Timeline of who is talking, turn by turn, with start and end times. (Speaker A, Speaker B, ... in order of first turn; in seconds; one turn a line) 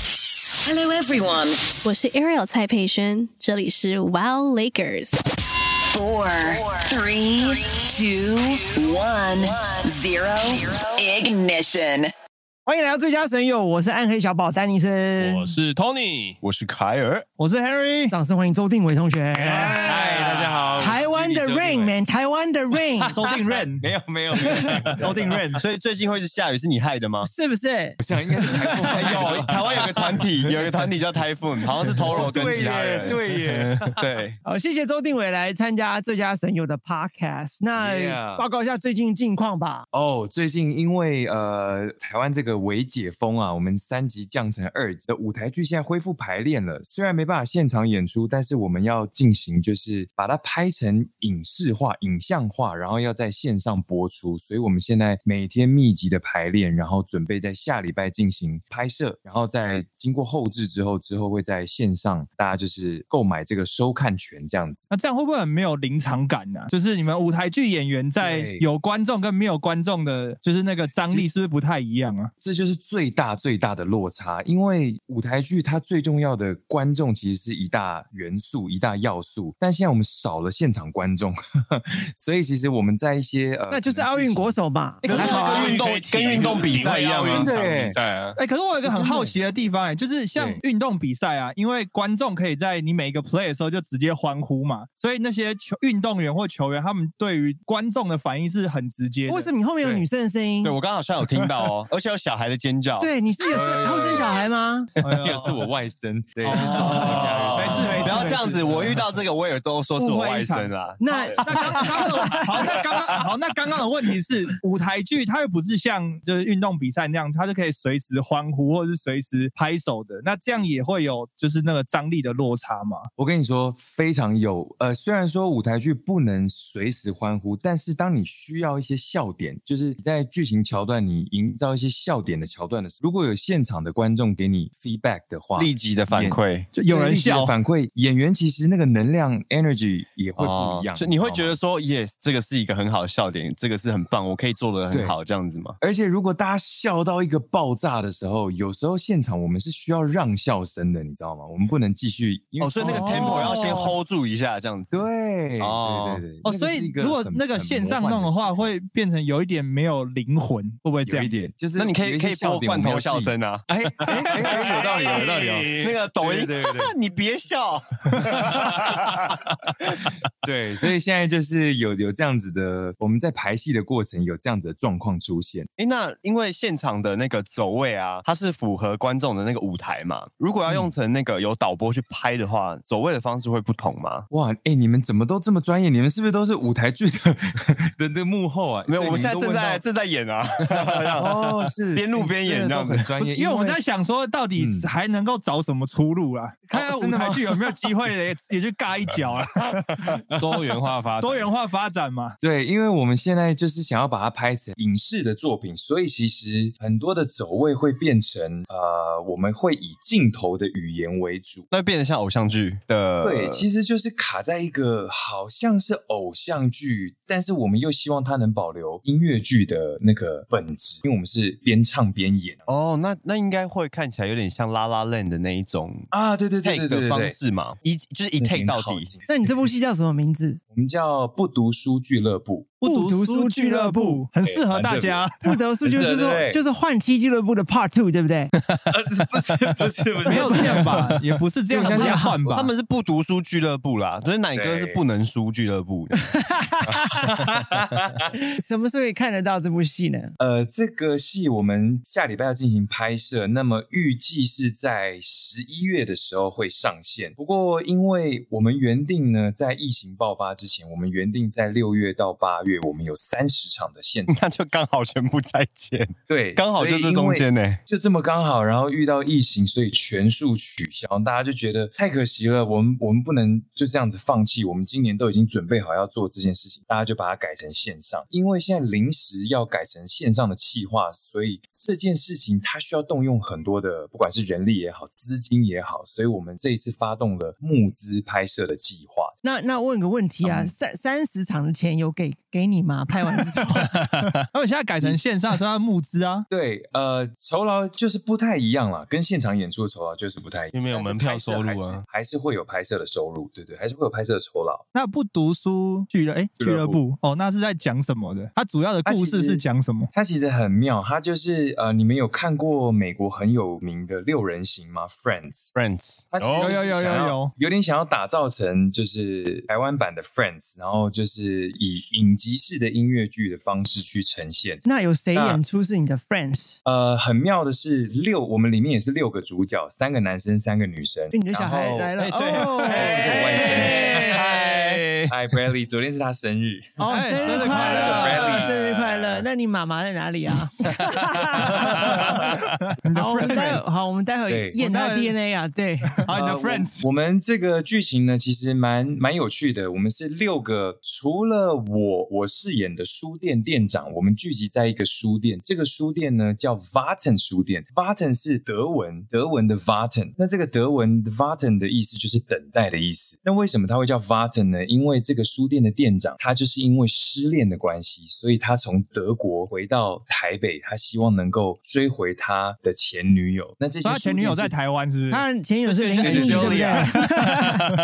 Speaker A: 0.6-1.6
Speaker B: 1.8-5.2
Speaker A: 5.9-12.1
Speaker C: 12.7-15.6
Speaker D: 15.2-16.4
Speaker E: 16.4-17.3
Speaker F: 17.4-18.1
Speaker C: 18.1-19.9
Speaker G: 19.4-21.9
Speaker C: 20.8-23.2
Speaker F: 23.1-23.9
Speaker G: 23.3-25.4
Speaker F: 25.0-25.6
Speaker E: 25.5-27.3
Speaker C: 27.2-28.0
Speaker G: 28.0-30.2
Speaker E: 28.8-34.4
Speaker G: 32.0-33.2
Speaker D: 33.0-33.9
Speaker C: 34.4-39.9
Speaker G: 37.8-38.5
Speaker G: 39.9-64.8
Speaker F: 64.9-72.3
Speaker G: 68.2-68.7
Speaker G: 71.0-71.3
Speaker G: 72.4-84.6
Speaker C: 83.7-85.8
Speaker E: 85.0-87.5
Speaker D: 85.1-88.4
Speaker G: 87.3-88.0
Speaker F: 88.3-99.5
Speaker C: 88.8-89.4
Speaker G: 90.3-90.6
Speaker C: 99.2-100.8
Speaker G: 99.8-100.1
Speaker E: 100.6-103.1
Speaker C: 103.0-104.9
Speaker G: 103.5-104.3
Speaker F: 105.0-105.6
Speaker G: 105.2-108.5
Speaker F: 106.4-109.0
Speaker E: 106.5-112.2
Speaker F: 110.0-110.8
Speaker C: 111.0-112.8
Speaker F: 111.3-123.1
Speaker G: 123.2-141.5
Speaker E: 135.6-136.7
Speaker F: 136.7-137.5
Speaker E: 140.4-145.8
Speaker G: 144.9-145.2
Speaker G: 145.8-153.7
Speaker E: 152.6-155.1
Speaker C: 152.8-153.8
Speaker F: 153.4-153.8
Speaker G: 154.9-158.7
Speaker E: 155.6-156.2
Speaker F: 156.4-161.3
Speaker G: 161.1-166.9
Speaker E: 161.8-164.3
Speaker D: 164.5-165.9
Speaker E: 165.1-169.4
Speaker G: 170.4-175.7
Speaker E: 175.8-184.2
Speaker G: 184.3-189.8
Speaker E: 188.9-191.3
Speaker G: 191.1-193.8
Speaker E: 191.9-193.1
Speaker F: 193.3-200.2
Speaker G: 194.6-194.9
Speaker G: 196.7-197.5
Speaker D: 200.3-201.5
Speaker F: 201.2-202.3
Speaker G: 202.4-211.7
Speaker E: 211.7-213.6
Speaker G: 213.2-222.7
Speaker E: 222.7-226.1
Speaker G: 226.1-227.3
Speaker E: 226.6-229.1
Speaker G: 228.4-229.7
Speaker C: 229.3-230.6
Speaker G: 230.7-232.7
Speaker F: 232.8-235.6
Speaker C: 232.8-234.2
Speaker G: 234.4-235.3
Speaker C: 235.4-238.5
Speaker G: 235.8-236.6
Speaker G: 238.9-240.9
Speaker F: 240.2-242.7
Speaker C: 240.3-240.6
Speaker C: 241.7-242.5
Speaker G: 241.7-242.5
Speaker E: 242.5-246.3
Speaker G: 244.5-245.0
Speaker C: 246.6-247.2
Speaker G: 246.9-248.2
Speaker C: 248.5-250.3
Speaker G: 250.4-264.4
Speaker E: 264.3-267.8
Speaker G: 266.3-289.3
Speaker C: 289.4-294.0
Speaker G: 290.4-290.7
Speaker F: 293.9-296.5
Speaker G: 296.5-304.8
Speaker D: 300.7-302.0
Speaker F: 304.9-310.1
Speaker G: 306.6-307.0
Speaker G: 309.0-315.7
Speaker E: 315.7-316.3
Speaker G: 316.3-324.8
Speaker D: 316.4-316.8
Speaker F: 316.6-317.5
Speaker C: 324.8-326.8
Speaker G: 325.3-325.6
Speaker G: 326.8-332.1
Speaker C: 331.3-334.4
Speaker E: 332.2-333.5
Speaker G: 332.9-338.7
Speaker D: 333.6-335.3
Speaker C: 337.0-342.6
Speaker F: 337.1-338.5
Speaker D: 337.7-339.4
Speaker F: 341.9-343.8
Speaker C: 343.1-346.2
Speaker G: 344.5-344.8
Speaker F: 344.7-345.4
Speaker F: 346.1-347.0
Speaker G: 346.3-374.7
Speaker F: 374.0-375.4
Speaker C: 375.3-377.9
Speaker E: 375.8-377.1
Speaker G: 376.2-376.8
Speaker F: 376.2-377.1